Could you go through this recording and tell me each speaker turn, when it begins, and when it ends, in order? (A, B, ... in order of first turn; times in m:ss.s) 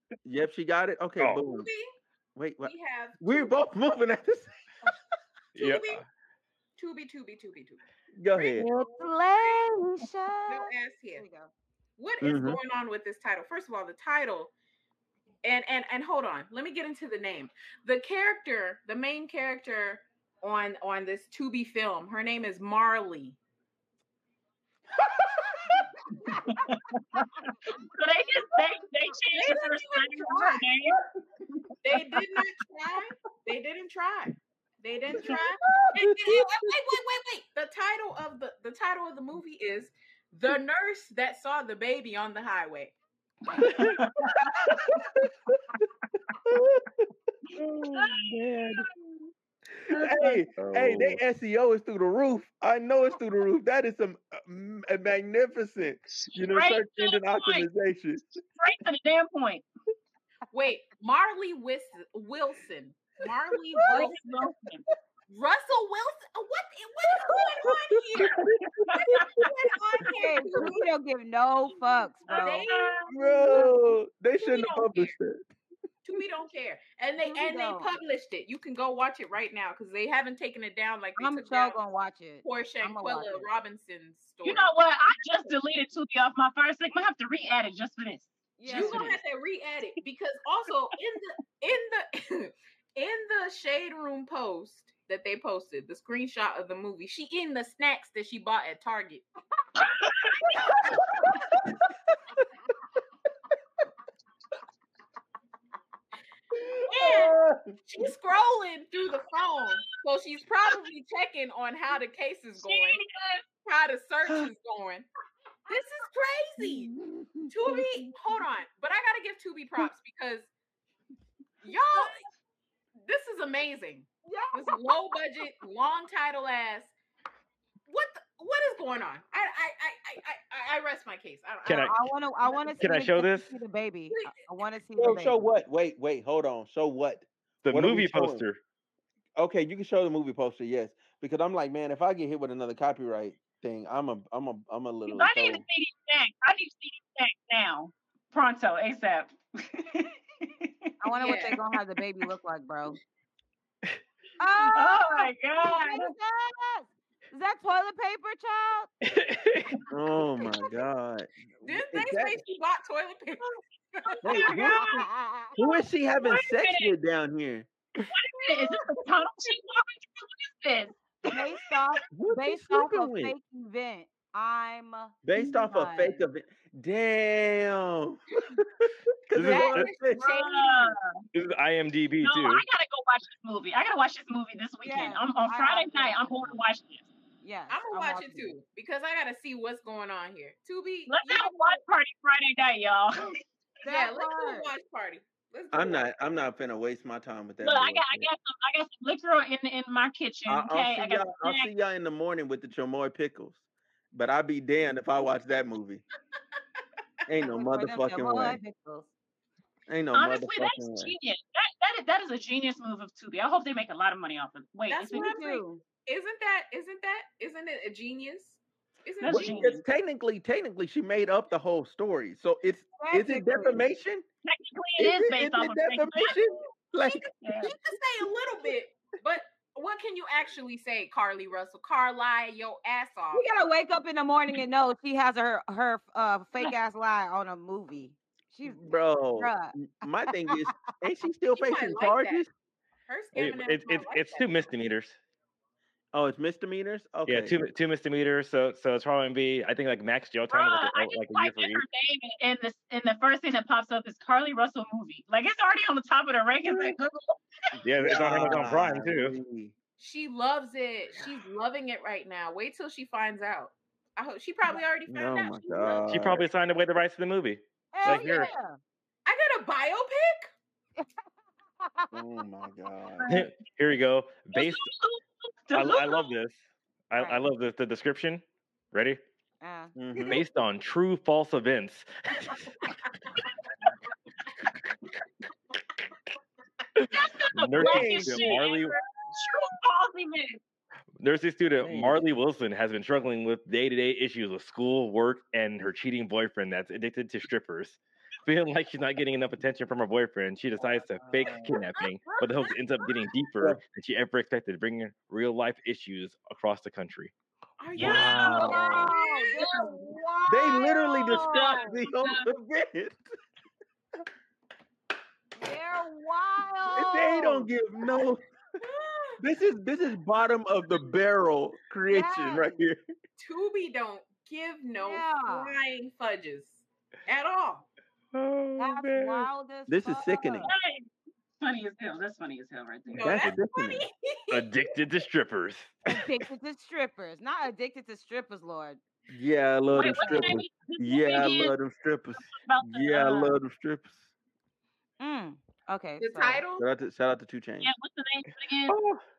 0:00.2-0:01.7 A
0:01.2-0:01.4 B
0:01.4-0:01.9 C
0:02.4-0:04.5 A
0:02.6-0:03.8 C
0:05.5-0:06.0 B
0:05.6-0:06.0 C
0:06.8-0:07.8 C
0:08.1-0:08.7 A
0:08.3-0:09.0 C
0:08.6-0:11.5 D
0:10.5-0:11.2 C
0:12.0-0:14.5 C
0:12.2-0:12.6 A
0:15.4-0:23.4 C
0:26.2-0:26.5 D
0:26.4-0:31.0 E
0:29.3-0:30.6 C
0:31.8-0:43.0 C
0:35.2-0:36.5 A
0:43.6-0:44.0 E
0:43.7-0:45.3 A
0:43.8-0:44.3 B
0:46.4-0:46.9 A
0:47.5-0:48.8 E
0:47.6-0:48.9 A
0:49.7-0:58.4 A
0:49.9-0:50.4 E
0:50.6-0:51.2 B
0:56.1-0:57.7 E
0:58.6-0:59.6 E
1:00.5-1:04.5 C
1:03.7-1:04.1 D
1:03.8-1:04.8 E
1:05.3-1:08.4 C
1:07.6-1:09.2 A
1:08.4-1:09.5 E
1:08.9-1:10.9 C
1:10.0-1:12.7 D
1:12.2-1:13.7 C
1:12.3-1:13.1 E
1:13.1-1:15.4 A
1:14.4-1:15.1 C
1:16.0-1:21.8 C
1:17.2-1:17.9 D
1:21.2-1:23.5 D
1:22.4-1:24.7 C
1:24.4-1:29.2 E
1:28.6-1:29.0 D
1:28.7-1:39.2 C
1:39.8-1:40.7 E
1:40.6-1:41.4 A
1:46.5-1:48.1 A
1:46.9-1:53.0 C
1:52.6-1:53.4 E
1:53.6-1:55.0 C
1:55.7-1:56.9 C
1:56.6-1:57.9 A
1:57.5-2:00.5 C
2:01.6-2:02.2 C
2:03.1-2:06.9 C
2:04.3-2:04.7 D
2:07.9-2:12.8 C
2:11.6-2:12.0 B
2:11.8-2:15.4 D
2:12.8-2:13.5 B
2:14.1-2:14.4 C
2:15.0-2:18.4 A
2:17.6-2:18.6 B
2:19.4-2:25.6 A
2:25.1-2:31.5 E
2:31.0-2:33.0 D
2:31.2-2:31.6 C
2:34.4-2:38.9 D
2:34.6-2:36.1 E
2:39.0-2:39.8 B
2:39.9-2:42.4 A
2:41.6-2:44.5 C
2:44.2-2:45.0 A
2:44.2-2:45.0 E
2:44.4-2:45.6 D
2:45.6-2:47.7 A
2:46.2-2:46.9 E
2:48.1-2:51.4 E
2:51.2-2:56.2 D
2:52.1-2:53.3 A
2:55.2-3:00.4 A
2:59.3-2:59.9 B
2:59.3-3:01.0 C
3:00.3-3:01.2 E
3:01.3-3:02.6 B
3:02.2-3:07.1 E
3:04.8-3:06.5 D
3:07.4-3:08.5 D
3:07.7-3:11.8 C
3:11.1-3:13.4 E
3:13.8-3:14.7 D
3:13.8-3:16.1 C
3:15.7-3:18.3 A
3:17.6-3:21.7 E
3:20.5-3:23.6 A
3:24.1-3:26.0 A
3:27.3-3:28.6 A
3:27.4-3:29.1 D
3:29.9-3:31.1 A
3:30.1-3:35.3 E
3:34.9-3:39.6 C
3:35.1-3:35.8 D
3:39.2-3:39.8 E
3:39.2-3:44.2 A
3:43.0-3:43.8 D
3:44.4-3:46.4 E
3:45.0-3:47.3 A
3:47.0-3:53.5 C
3:47.4-3:47.7 E
3:53.3-4:00.6 D
3:58.6-4:02.5 A
4:01.5-4:02.4 C
4:03.1-4:04.5 C
4:03.3-4:05.2 B
4:06.1-4:07.6 A
4:07.2-4:11.8 B
4:10.5-4:17.8 E
4:17.8-4:19.3 B
4:18.0-4:19.7 A
4:20.0-4:26.3 C
4:25.1-4:26.5 A
4:26.0-4:28.5 B
4:27.9-4:28.8 D
4:28.0-4:28.4 E
4:29.2-4:30.5 C
4:31.8-4:32.2 D
4:32.1-4:33.4 A
4:33.2-4:33.5 E
4:33.3-4:34.9 B
4:34.5-4:36.3 E
4:35.7-4:36.6 B
4:37.1-4:39.2 B
4:37.1-4:37.4 D
4:39.6-4:39.9 D
4:40.0-4:40.4 A
4:40.3-4:42.7 B
4:47.0-4:49.0 B
4:47.1-4:50.6 E
4:47.7-4:48.6 A
4:51.2-5:07.3 B
4:51.8-4:52.2 A
5:01.2-5:01.7 A
5:01.7-5:03.3 C
5:07.8-5:10.2 C
5:07.9-5:09.9 E
5:08.0-5:09.1 A
5:08.6-5:12.0 D
5:10.5-5:13.3 A
5:11.2-5:12.5 E
5:15.6-5:17.7 D
5:16.9-5:18.4 A
5:18.8-5:19.4 C
5:19.4-5:23.0 A
5:22.1-5:22.8 D
5:23.4-5:27.9 C
5:25.0-5:25.7 D
5:28.3-5:29.5 B
5:28.8-5:30.7 D
5:29.9-5:30.7 A
5:30.6-5:31.1 E
5:31.6-5:33.5 E
5:33.2-5:34.8 C
5:33.2-5:34.0 A
5:34.5-5:36.2 B
5:36.1-5:39.0 D
5:39.3-5:44.2 A
5:39.9-5:41.8 E
5:40.0-5:40.6 D
5:42.5-5:43.6 E
5:45.2-5:46.6 D
5:46.2-5:46.8 C
5:46.8-5:47.9 A
5:47.8-5:49.0 E